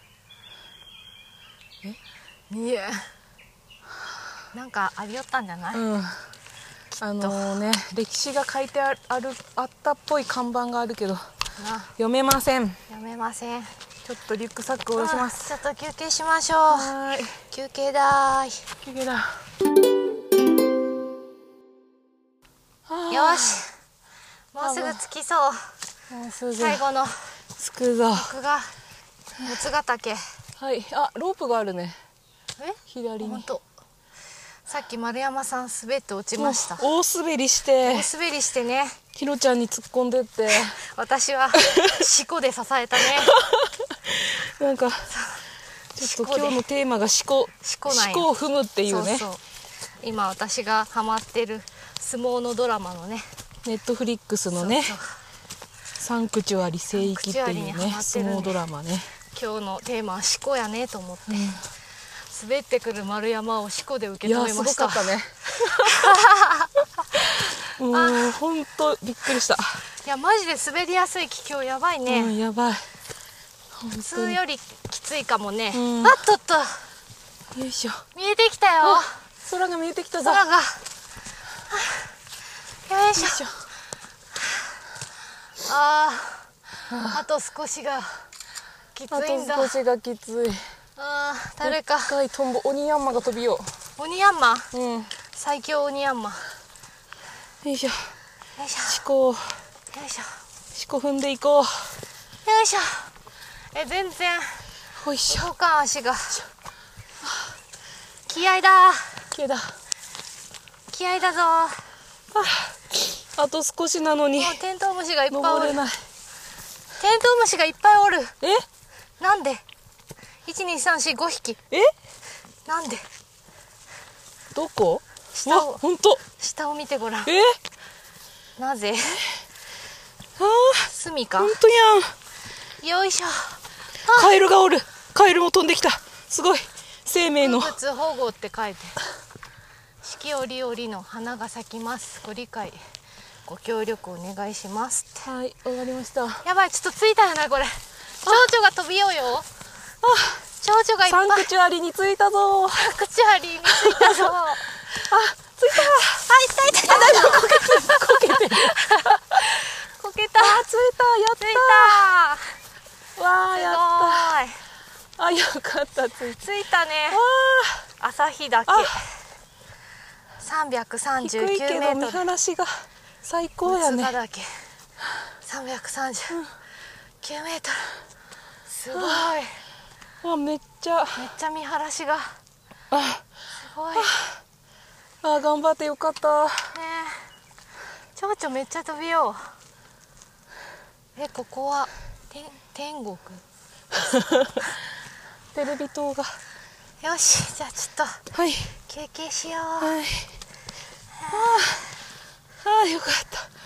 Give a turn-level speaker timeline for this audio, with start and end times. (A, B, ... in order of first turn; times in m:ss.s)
0:02.5-0:03.1 A
0:04.5-0:05.8 A
0:05.7-0:06.2 B
0:06.9-0:07.6 A
0:07.0-0:11.2 B
0:11.6-0:11.9 A
0:12.0-0:12.8 B
0:12.9-0:13.7 A
0:14.0-0:15.6 B
0:15.0-0:16.9 A
0:16.7-0:17.4 B
0:17.5-0:18.6 A
0:18.8-0:19.4 B
0:22.9-0:23.6 B
0:23.1-0:23.7 A
0:24.5-0:25.6 A
0:24.6-0:25.0 B
0:26.1-0:26.8 B
0:26.6-0:27.1 A
0:27.6-0:28.3 B
0:28.1-0:28.7 A
0:29.4-0:30.2 A
0:30.6-0:32.0 B
0:32.6-0:33.6 A
0:32.9-0:33.5 B
0:34.7-0:36.8 A
0:36.4-0:38.1 B
0:37.8-0:39.0 A
0:39.1-0:40.8 B
0:40.7-0:43.4 A
0:41.6-0:42.1 B
0:43.0-0:45.1 B
0:45.1-0:45.4 A
0:46.0-0:49.3 B
0:46.0-0:46.6 A
0:47.6-0:48.3 A
0:48.8-0:49.4 A
0:50.0-0:53.3 A
0:53.6-0:55.0 B
0:54.5-0:55.2 A
0:56.0-0:59.1 B
0:56.9-0:58.6 A
0:59.3-1:01.6 A
1:01.3-1:01.6 B
1:02.3-1:05.2 A
1:04.2-1:06.1 B
1:05.7-1:06.7 A
1:07.1-1:09.8 B
1:07.9-1:08.3 A
1:10.0-1:12.3 A
1:12.1-1:12.8 B
1:13.7-1:14.4 B
1:14.0-1:16.8 A
1:15.7-1:16.2 B
1:17.5-1:18.0 B
1:18.1-1:19.2 A
1:18.8-1:20.4 B
1:20.2-1:20.8 A
1:21.7-1:22.1 A
1:22.9-1:23.4 A
1:23.1-1:23.5 B
1:25.6-1:28.2 A
1:26.9-1:27.2 B
1:28.9-1:29.8 A
1:29.1-1:30.6 B
1:31.0-1:32.2 A
1:31.6-1:33.7 B
1:34.0-1:34.7 A
1:34.7-1:35.1 B
1:35.3-1:36.4 A
1:37.6-1:38.1 B
1:38.6-1:39.0 A
1:38.9-1:39.5 B
1:39.9-1:40.3 A
1:40.7-1:41.9 B
1:42.4-1:43.1 A
1:43.7-1:44.6 A
1:45.0-1:45.5 B
1:45.3-1:46.4 A
1:48.3-1:49.2 A
1:49.3-1:49.7 B
1:50.9-1:51.8 A
1:52.3-1:54.6 B
1:54.4-1:55.8 A
1:55.3-1:56.0 B
1:57.0-1:58.3 A
1:59.2-1:59.6 A
2:00.4-2:01.6 A
2:02.6-2:03.0 A
2:04.5-2:06.2 B
2:05.3-2:05.8 A
2:06.4-2:07.3 A
2:07.2-2:07.6 B
2:08.6-2:09.2 A
2:10.4-2:12.1 B
2:10.9-2:11.6 A
2:12.8-2:14.4 A
2:14.1-2:17.7 B
2:17.4-2:19.0 A
2:20.0-2:22.8 A
2:23.4-2:25.3 A
2:25.2-2:26.4 B
2:26.4-2:29.5 A
2:30.0-2:30.4 B
2:30.6-2:31.5 A
2:31.0-2:33.0 B
2:32.7-2:34.8 A
2:33.7-2:34.3 B
2:34.8-2:36.2 B
2:35.8-2:40.6 A
2:36.8-2:39.4 B
2:40.4-2:42.1 B
2:41.4-2:42.5 A
2:43.2-2:44.4 B
2:43.5-2:44.6 A
2:45.2-2:46.4 B
2:46.4-2:47.2 A
2:47.1-2:47.9 B
2:48.0-2:49.0 A
2:48.7-2:48.9 B
2:50.4-2:52.2 A
2:51.2-2:54.1 B
2:53.6-2:54.5 A
2:55.4-2:56.4 A
2:57.2-2:57.9 A
2:58.6-2:59.6 A
2:58.9-2:59.3 B
3:00.2-3:01.2 B
3:01.2-3:02.3 A
3:02.9-3:03.2 B
3:03.6-3:04.1 A
3:03.9-3:04.2 B
3:05.2-3:06.5 B
3:06.7-3:07.3 A
3:08.1-3:09.4 A
3:11.2-3:13.4 A
3:14.0-3:14.6 B
3:15.5-3:16.3 B
3:17.0-3:18.2 A
3:18.3-3:18.7 B
3:18.9-3:20.0 A
3:19.8-3:20.3 B
3:21.2-3:21.7 A
3:21.3-3:21.8 B
3:22.6-3:23.5 B